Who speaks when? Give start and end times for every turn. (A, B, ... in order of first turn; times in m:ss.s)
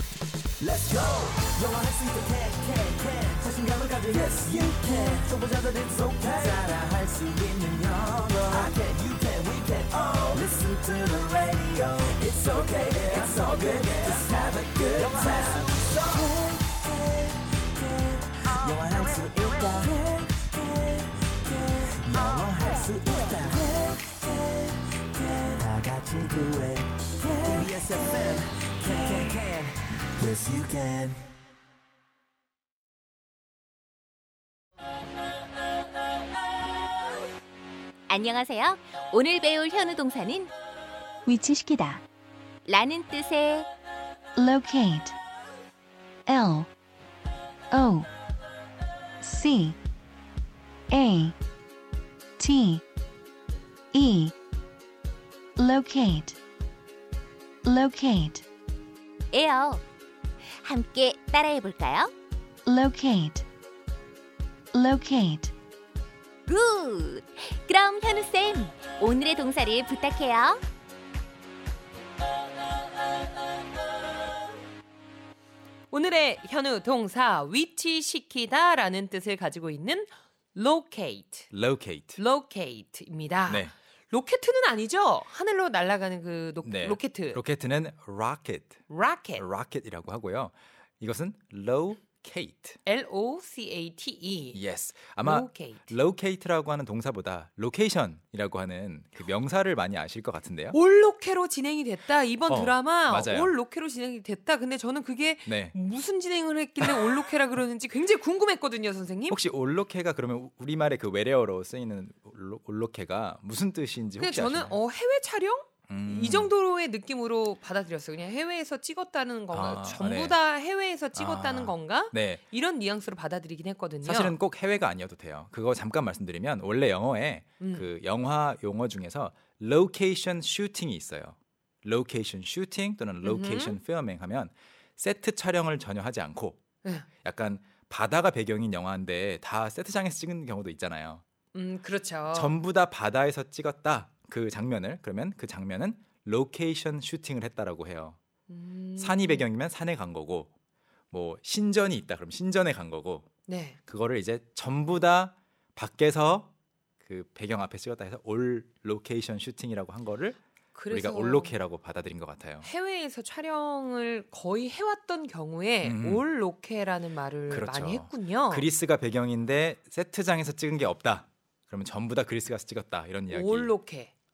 0:00.6-0:31.2 A
0:38.1-0:40.5 B
0:41.2-0:42.0 B
0:42.6-0:43.7 B
0:44.4-0:45.2 C
0:46.3-0:46.7 C
0:47.7-0:48.1 C
0:49.2-0:49.8 C
0:50.9-0:51.3 C
0:52.4-0:52.8 C
0:53.9-0:54.3 C
0:55.6-0:56.4 C
0:57.6-0:58.4 C
0:59.3-0:59.8 B
1:00.6-1:02.1 B
1:02.6-1:03.4 C
1:04.7-1:05.5 C
1:06.5-1:10.6 B
1:15.9-1:21.5 D
1:21.5-1:22.2 E
1:22.2-1:27.4 D
1:23.5-1:23.7 E
1:26.6-1:28.8 E
1:28.9-1:29.5 D
1:29.4-1:32.8 E
1:32.8-1:34.6 D
1:34.5-1:40.8 E
1:35.2-1:35.9 D
1:40.7-1:49.4 D
1:42.5-1:43.5 E
1:45.4-1:45.8 E
1:46.8-1:47.2 E
1:49.3-1:54.8 E
1:54.2-2:04.4 D
1:55.9-1:56.5 E
1:59.5-2:00.4 E
2:01.2-2:02.4 E
2:04.0-2:16.6 E
2:07.6-2:07.9 D
2:13.2-2:13.8 D
2:17.2-2:21.2 E
2:21.5-2:22.6 D
2:22.3-2:28.2 E
2:28.5-2:29.4 D
2:29.0-2:30.5 E
2:31.1-2:33.3 E
2:33.5-2:33.8 D
2:33.9-2:36.5 E
2:37.0-2:40.4 E
2:40.7-2:41.5 D
2:40.9-2:42.7 E
2:42.6-2:48.7 D
2:45.8-2:46.2 E
2:47.5-2:53.7 E
2:53.3-2:54.1 D